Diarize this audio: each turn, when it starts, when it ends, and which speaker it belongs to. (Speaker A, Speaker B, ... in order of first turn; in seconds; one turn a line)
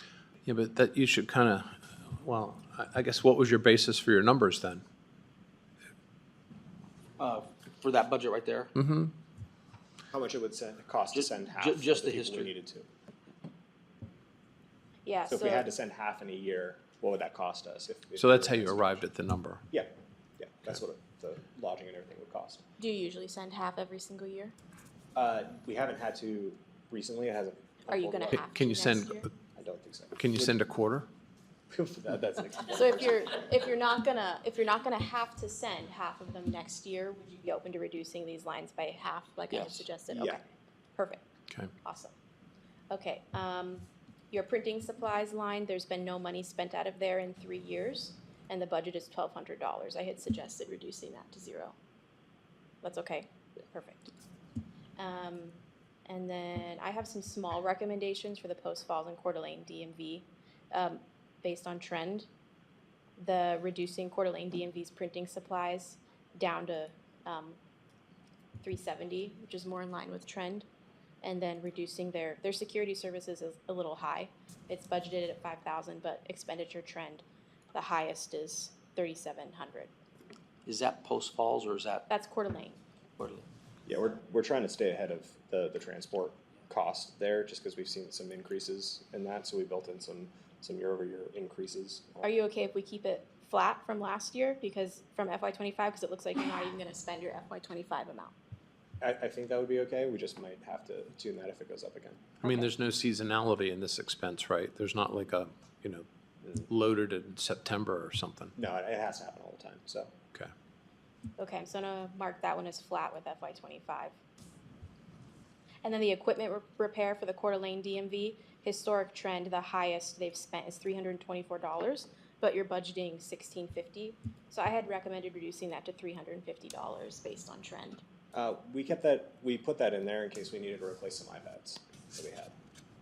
Speaker A: 0.4-4.8
Speaker B: 7.2-8.7
Speaker A: 8.8-9.1
Speaker C: 10.1-12.8
Speaker B: 11.1-12.5
Speaker D: 15.1-15.7
Speaker C: 15.3-19.0
Speaker A: 18.9-19.6
Speaker C: 19.7-22.6
Speaker D: 22.8-24.5
Speaker C: 25.1-28.4
Speaker D: 27.9-29.3
Speaker A: 28.5-29.1
Speaker C: 29.6-30.5
Speaker A: 30.2-31.1
Speaker C: 31.7-33.1
Speaker D: 32.7-40.4
Speaker B: 39.5-39.9
Speaker C: 40.1-40.4
Speaker D: 41.0-41.2
Speaker D: 41.8-42.1
Speaker D: 42.9-51.7
Speaker D: 52.8-54.1
Speaker D: 55.0-62.3
Speaker D: 63.2-67.6
Speaker D: 68.6-70.7
Speaker D: 71.2-79.9
Speaker B: 80.7-82.0
Speaker D: 82.1-82.8
Speaker B: 83.2-83.4
Speaker C: 83.8-92.2
Speaker D: 92.2-98.3
Speaker C: 99.0-102.4
Speaker D: 102.4-102.7
Speaker A: 102.5-106.0
Speaker A: 106.7-108.5
Speaker C: 108.5-110.1
Speaker D: 111.4-114.2
Speaker D: 115.8-128.0
Speaker C: 128.3-132.5